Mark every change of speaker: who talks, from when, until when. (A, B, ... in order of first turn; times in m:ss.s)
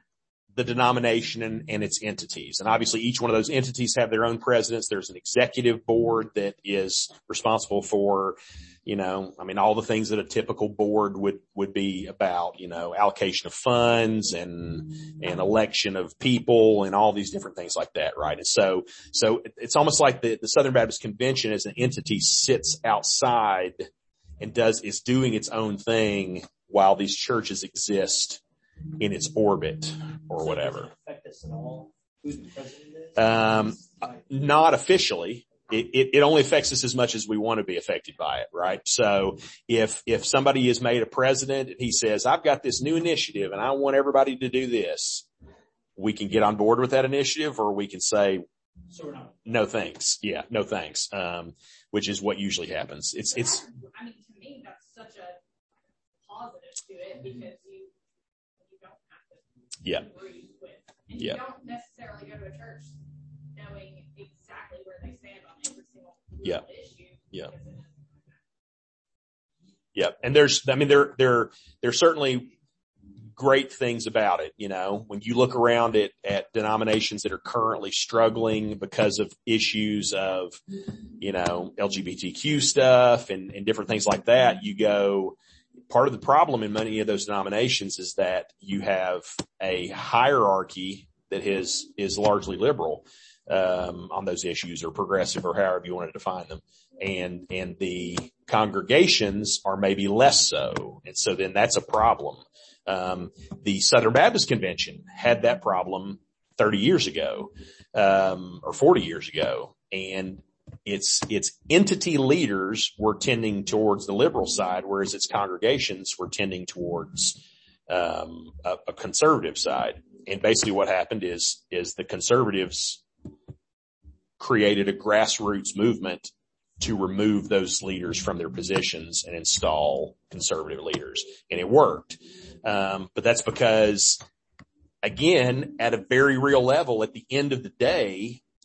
0:00.6-0:23.9 A
0:24.4-0:28.4 A
0:29.0-0:30.9 A
0:30.4-0:34.3 B
0:33.2-0:45.3 A
0:46.0-0:48.4 A
0:48.9-0:49.4 B
0:49.4-0:53.6 A
0:53.3-0:55.4 C
0:56.2-0:57.9 C
0:58.6-1:03.0 C
1:03.5-1:07.9 C
1:09.9-1:12.5 A
1:13.4-1:20.6 A
1:21.2-1:25.4 A
1:25.9-2:03.0 A
2:04.4-2:14.2 A
2:15.0-2:18.4 A